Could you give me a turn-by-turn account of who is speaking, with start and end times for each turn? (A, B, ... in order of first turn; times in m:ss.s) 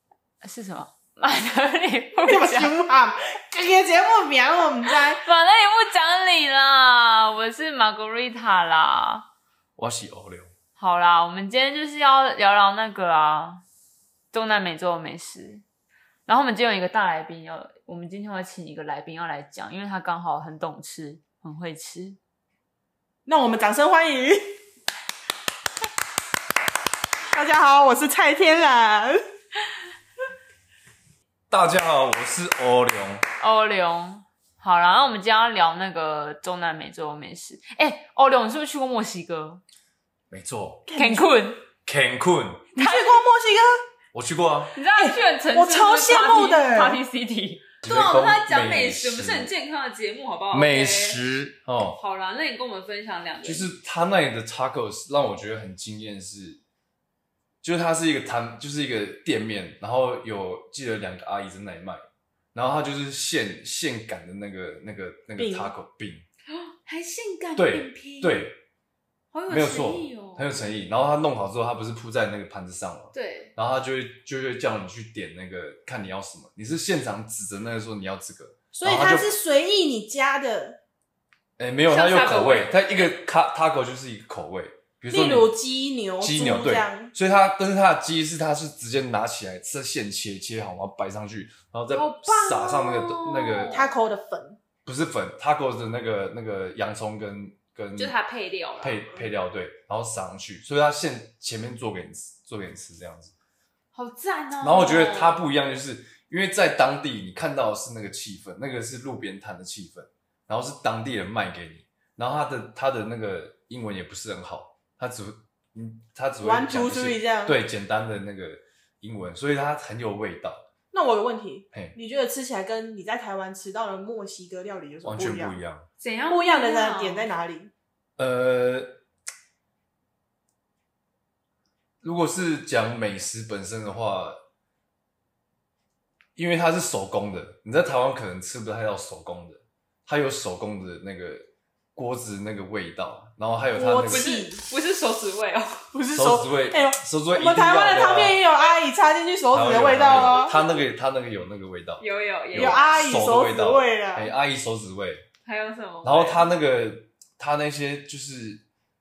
0:00.4-0:02.8 A
0:02.2-0:05.2 B
0:05.1-0:09.3 A
0:09.8-0:10.5 C
0:10.8-0:13.6 A
0:14.3-0:15.6 A
0:16.3-0:22.2 A
0:23.3-0:24.5 B
0:27.3-0:29.2 B
0:31.5-0:33.3 C
0:33.4-0:39.6 A
0:40.3-0:40.8 C
0:40.9-0:41.4 B
0:40.9-0:41.6 A
0:41.8-0:42.7 C
0:42.8-0:43.8 B
0:42.8-0:43.1 A
0:44.1-0:44.7 C
0:44.8-0:51.2 A
0:45.0-0:47.0 B
0:47.8-0:49.5 C
0:50.5-0:52.0 C
0:51.9-0:53.7 A
0:53.4-0:56.6 C
0:57.6-1:06.2 C
1:05.4-1:05.7 B
1:06.5-1:08.4 A
1:07.6-1:08.6 C
1:09.3-1:10.5 A
1:09.5-1:19.3 C
1:13.1-1:13.5 A
1:18.7-1:20.8 B
1:21.6-1:25.5 C
1:21.9-1:23.1 A
1:25.1-1:27.1 B
1:26.2-1:33.9 C
1:31.9-1:33.9 A
1:33.7-1:34.6 B
1:34.8-1:38.2 C
1:38.0-1:39.3 A
1:38.8-1:43.3 C
1:43.9-1:45.4 A
1:44.6-2:00.6 C
1:56.4-1:57.6 B
2:00.9-2:05.6 B
2:05.0-2:05.9 C
2:06.0-2:07.3 A
2:06.3-2:07.7 B
2:08.2-2:09.0 C
2:12.0-2:14.4 C
2:16.4-2:24.3 C
2:23.7-2:24.7 B
2:24.1-2:25.8 A
2:25.9-2:30.6 B
2:26.1-2:28.4 C
2:29.5-2:35.2 C
2:32.0-2:33.0 A
2:32.6-2:34.3 B
2:35.4-2:36.5 A
2:36.0-2:38.6 C